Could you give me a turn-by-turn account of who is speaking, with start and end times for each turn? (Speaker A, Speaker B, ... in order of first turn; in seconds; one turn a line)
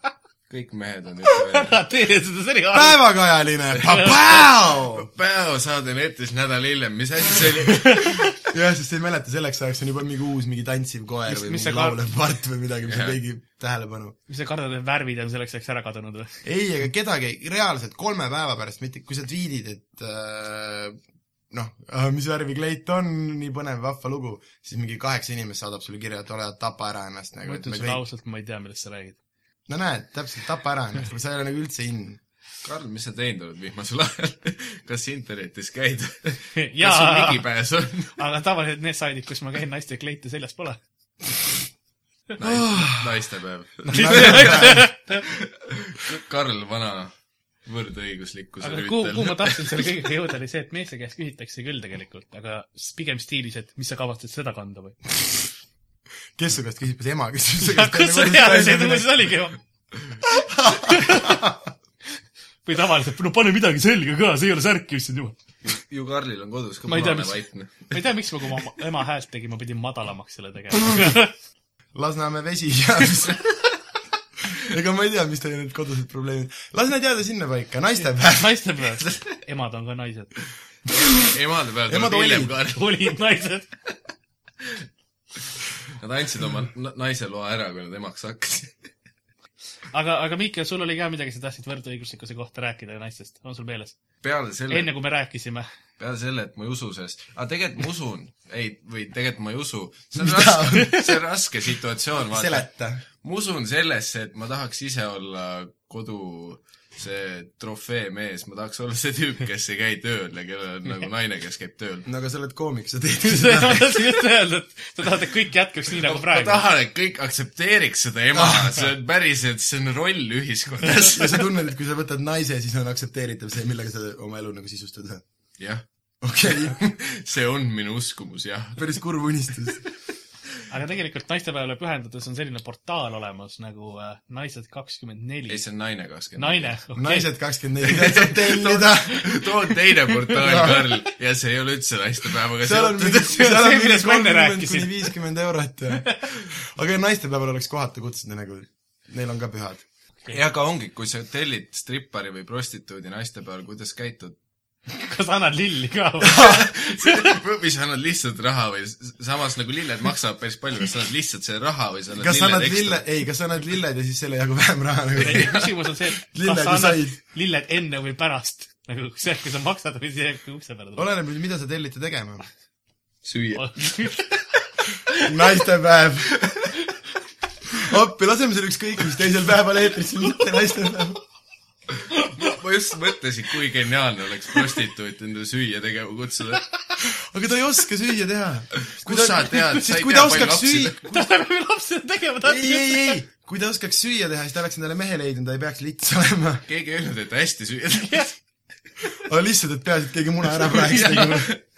Speaker A: 0.5-1.8
Speaker B: 1.2-3.0
Speaker C: 2.7-5.1
Speaker A: 5.0-8.3
Speaker C: 8.5-14.2
Speaker B: 11.3-12.0
Speaker A: 12.8-13.2
Speaker B: 14.3-16.3
Speaker C: 16.4-21.0
Speaker C: 21.5-28.0
Speaker B: 27.4-29.2
Speaker C: 29.7-32.2
Speaker A: 32.6-38.2
Speaker B: 36.5-37.5
Speaker B: 38.2-40.8
Speaker A: 42.4-47.1
Speaker C: 42.5-43.1
Speaker B: 43.9-45.2
Speaker C: 43.9-44.9
Speaker A: 47.6-49.9
Speaker B: 48.6-55.0
Speaker C: 56.4-59.1
Speaker B: 57.6-59.6
Speaker C: 60.3-61.7
Speaker B: 60.7-61.4
Speaker B: 62.6-65.4
Speaker A: 65.6-67.9
Speaker B: 66.9-71.3
Speaker C: 71.9-73.4
Speaker C: 74.5-78.6
Speaker B: 78.3-80.3
Speaker A: 81.1-83.0
Speaker C: 81.9-82.5
Speaker B: 82.6-83.7
Speaker A: 86.0-88.8
Speaker B: 89.9-94.0
Speaker A: 94.2-94.9
Speaker B: 94.7-95.7
Speaker A: 96.0-102.7
Speaker C: 100.2-101.0
Speaker C: 102.2-103.0
Speaker A: 103.2-112.1
Speaker C: 112.0-114.2
Speaker B: 113.2-116.6
Speaker A: 116.0-121.4
Speaker C: 118.3-118.8
Speaker C: 120.8-125.2
Speaker A: 125.6-125.8
Speaker C: 126.2-126.8
Speaker A: 126.5-128.8
Speaker C: 128.8-129.8
Speaker B: 130.7-135.6
Speaker A: 135.5-136.7
Speaker B: 136.4-137.3
Speaker C: 137.0-139.7
Speaker A: 137.9-143.4
Speaker C: 140.3-141.0
Speaker C: 142.6-149.8
Speaker B: 143.1-145.1
Speaker A: 150.3-154.3
Speaker B: 154.9-157.4
Speaker A: 156.3-163.0
Speaker C: 162.2-165.6
Speaker B: 165.2-171.1
Speaker A: 165.2-165.7
Speaker C: 166.3-167.2
Speaker C: 171.0-172.5
Speaker A: 173.2-174.3
Speaker B: 173.6-174.3
Speaker C: 175.2-176.4
Speaker A: 176.3-176.8
Speaker C: 177.7-181.2
Speaker A: 182.3-186.6
Speaker C: 187.0-191.0
Speaker A: 188.8-191.2
Speaker B: 191.1-193.2
Speaker C: 192.4-196.7
Speaker A: 196.7-198.3
Speaker B: 198.0-198.3
Speaker C: 199.2-201.5
Speaker A: 200.6-201.6